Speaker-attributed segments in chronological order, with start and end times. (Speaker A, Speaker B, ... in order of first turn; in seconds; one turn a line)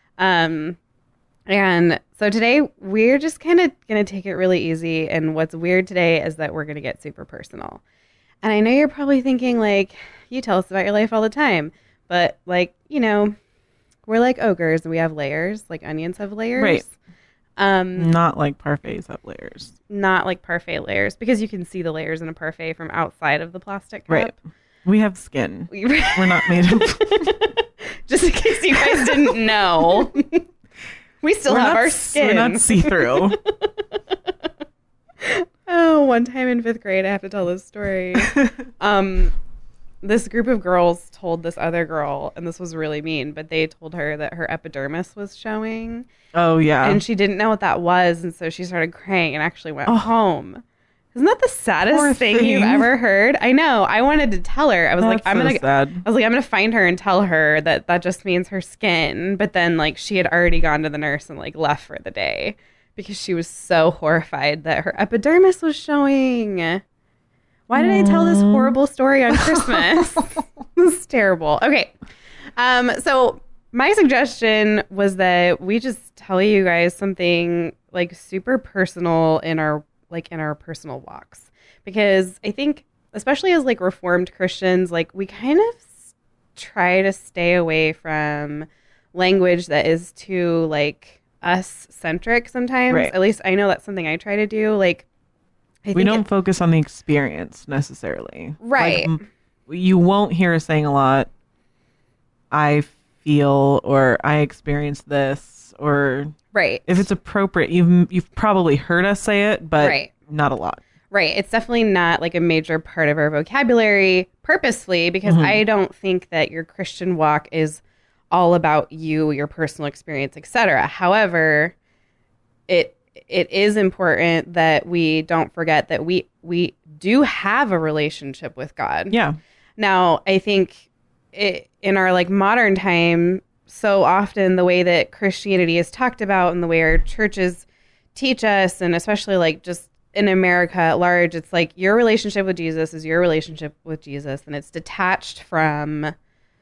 Speaker A: 0.2-0.8
Speaker A: 1.5-7.8
Speaker A: 8.4-13.3
Speaker A: 14.1-16.9
Speaker B: 16.6-16.8
Speaker A: 17.6-18.1
Speaker B: 17.9-19.7
Speaker A: 19.9-24.3
Speaker B: 24.1-27.4
Speaker A: 25.7-30.4
Speaker B: 28.9-29.1
Speaker A: 31.2-33.8
Speaker B: 31.5-33.4
Speaker A: 35.2-39.3
Speaker B: 38.2-38.5
Speaker A: 40.0-46.0
Speaker B: 46.3-47.0
Speaker A: 46.8-50.6
Speaker A: 51.1-66.8
Speaker B: 51.9-52.9
Speaker B: 55.0-56.0
Speaker A: 67.7-71.9
Speaker B: 67.7-68.7
Speaker B: 69.3-70.0
Speaker A: 72.6-86.0
Speaker A: 86.5-95.0
Speaker B: 92.9-93.1
Speaker A: 95.8-96.2
Speaker B: 95.9-101.3
Speaker A: 98.6-99.2
Speaker B: 102.5-106.3
Speaker A: 106.5-107.1
Speaker B: 106.9-110.8
Speaker A: 109.8-110.1
Speaker A: 111.1-121.7
Speaker B: 115.2-115.6
Speaker A: 122.7-129.2
Speaker B: 129.1-129.4
Speaker A: 129.8-146.1